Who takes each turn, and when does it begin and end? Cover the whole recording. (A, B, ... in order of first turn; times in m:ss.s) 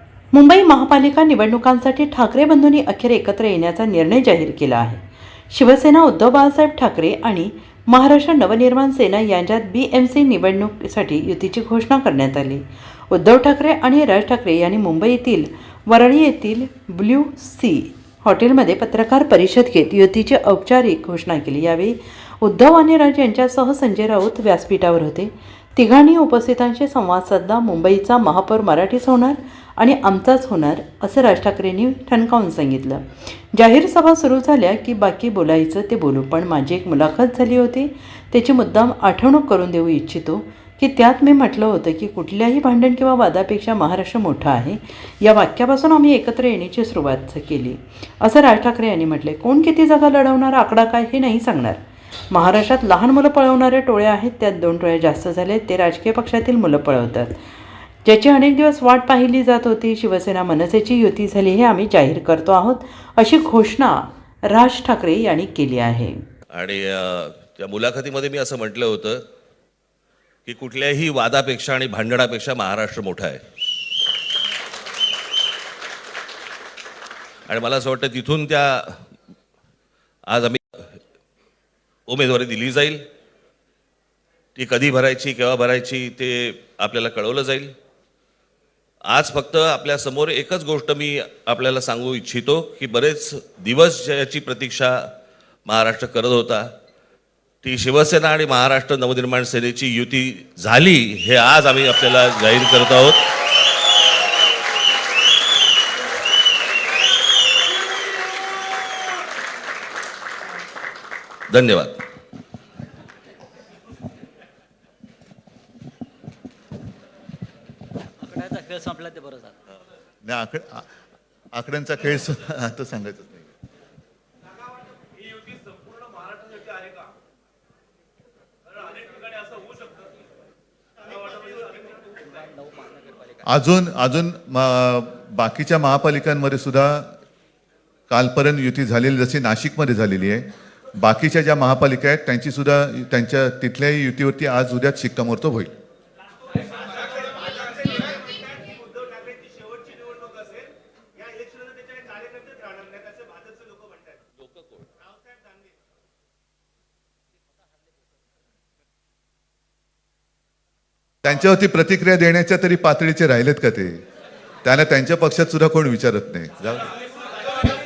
0:00.3-0:51.8 A
0:52.3-0:57.4 A
0:58.0-1:06.2 A
1:06.5-1:09.2 B
1:10.5-1:13.4 B
1:17.5-1:19.0 B
1:20.3-1:20.9 B
1:22.1-1:23.0 B
1:24.6-1:27.7 B
1:29.1-1:35.1 B
1:35.7-1:36.7 B
1:37.6-1:43.3 B
1:51.5-1:52.0 B
1:58.2-1:59.6 C
2:00.2-2:00.9 D
2:01.6-2:03.5 D
2:09.1-2:09.8 C
2:11.2-2:11.8 C
2:12.6-2:13.2 C
2:13.5-2:17.1 D
2:18.1-2:25.7 D
2:27.4-2:34.2 C
2:34.4-2:34.8 B
2:35.3-2:35.6 C
2:41.2-2:44.0 D
2:44.6-2:46.9 D